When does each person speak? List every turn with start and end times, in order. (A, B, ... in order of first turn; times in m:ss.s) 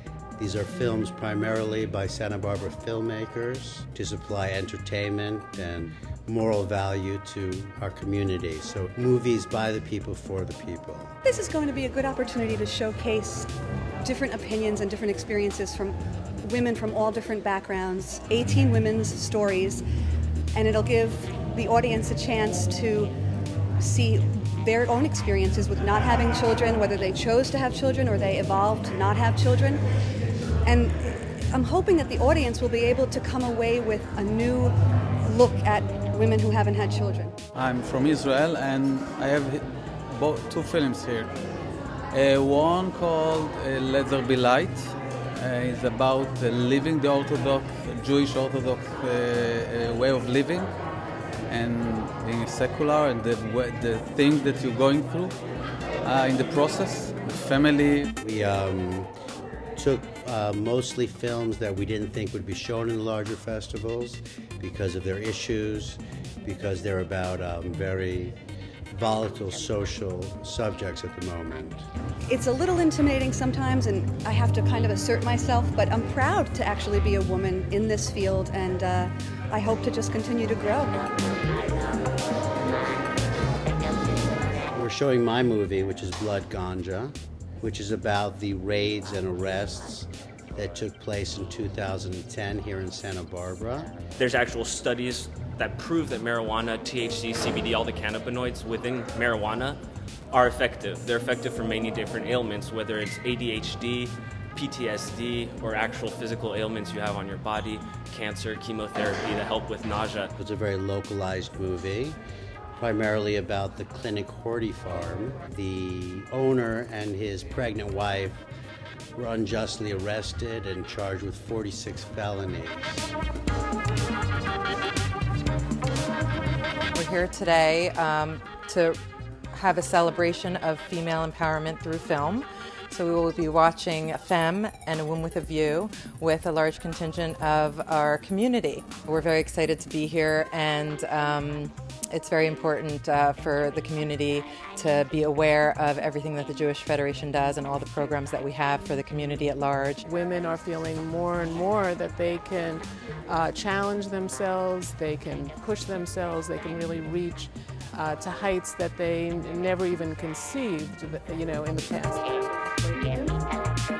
0:00.4-0:11.1 A
0:11.2-0:13.5 B
0:14.0-0:19.8 B
0:20.5-0:23.1 B
0:23.8-0:29.8 B
0:30.6-0:37.3 B
0:37.5-0:41.3 C
0:42.1-0:50.7 C
0:51.5-0:55.4 C
0:56.0-0:58.1 C
0:58.2-0:59.1 A
0:59.8-1:08.4 A
1:08.9-1:11.8 A
1:12.3-1:20.9 B
1:24.7-1:33.9 A
1:34.2-1:39.8 D
1:40.3-1:50.3 D
1:50.4-1:52.2 A
1:52.8-1:58.4 A
1:59.2-2:03.1 A
2:06.9-2:09.0 E
2:09.5-2:30.0 E
2:30.0-2:43.2 F